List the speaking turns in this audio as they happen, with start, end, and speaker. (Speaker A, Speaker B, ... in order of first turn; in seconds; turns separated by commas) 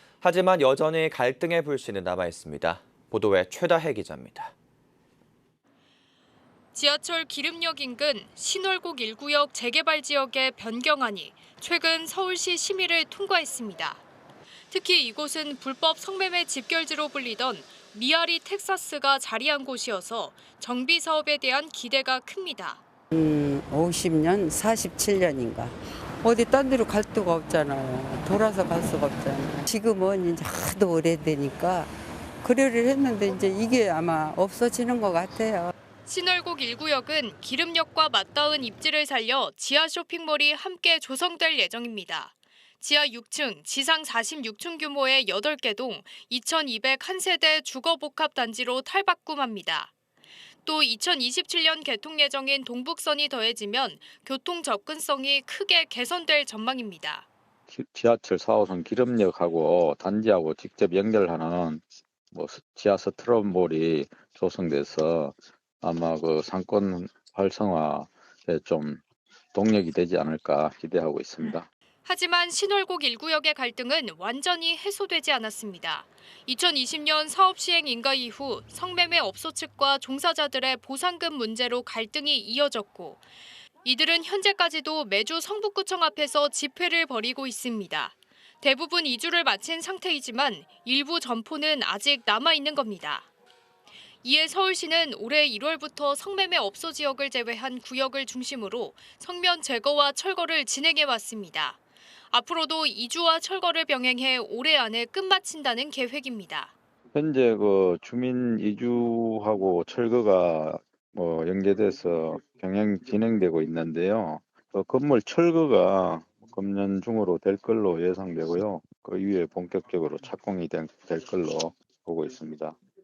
Speaker A: 0.2-4.5, Speaker B: 6.7-14.0, Speaker B: 14.7-22.8, Speaker C: 23.1-31.9, Speaker C: 32.4-35.7, Speaker B: 36.0-49.9, Speaker B: 50.6-57.2, Speaker D: 57.7-69.0, Speaker D: 69.5-71.7, Speaker B: 72.0-83.2, Speaker B: 83.8-93.3, Speaker B: 94.2-101.8, Speaker B: 102.3-106.7, Speaker D: 107.1-122.8